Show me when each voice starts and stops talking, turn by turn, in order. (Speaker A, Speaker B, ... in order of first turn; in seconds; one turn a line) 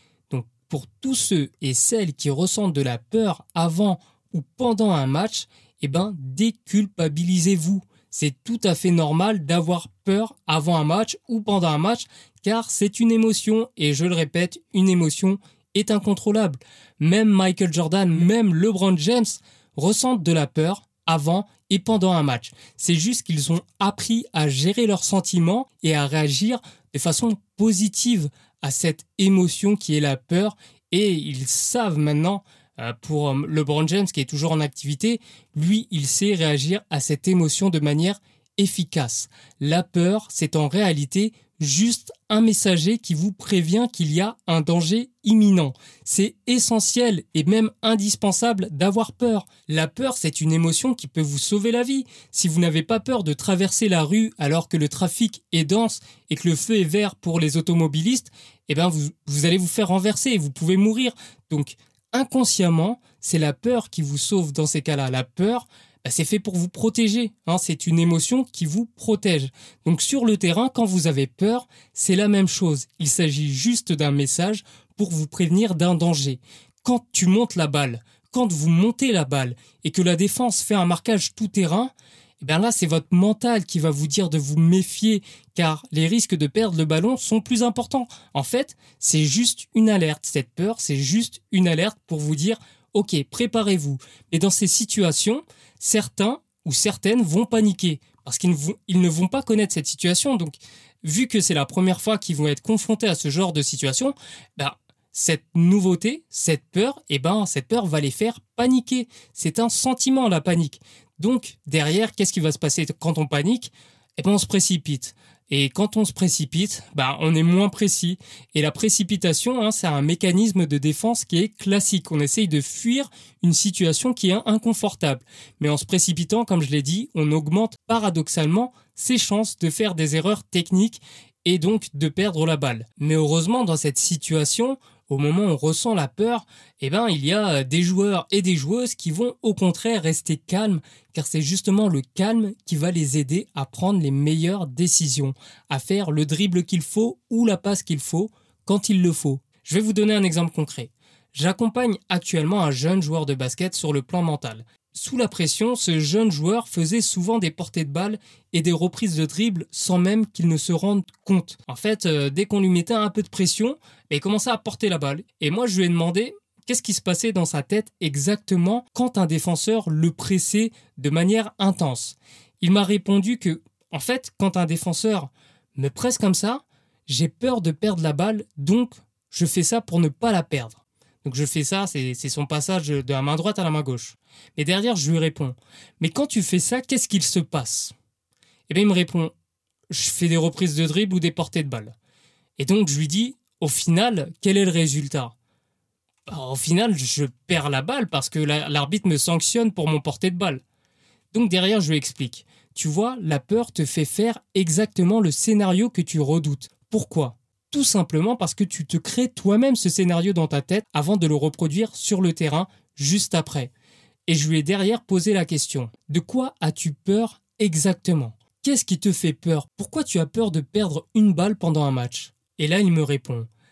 Speaker A: 0.3-187.9
Speaker A: 188.7-189.3
Speaker A: 189.9-191.9
Speaker A: 192.6-195.3
Speaker A: 196.3-200.6
Speaker A: 201.3-213.7
Speaker A: 214.3-223.5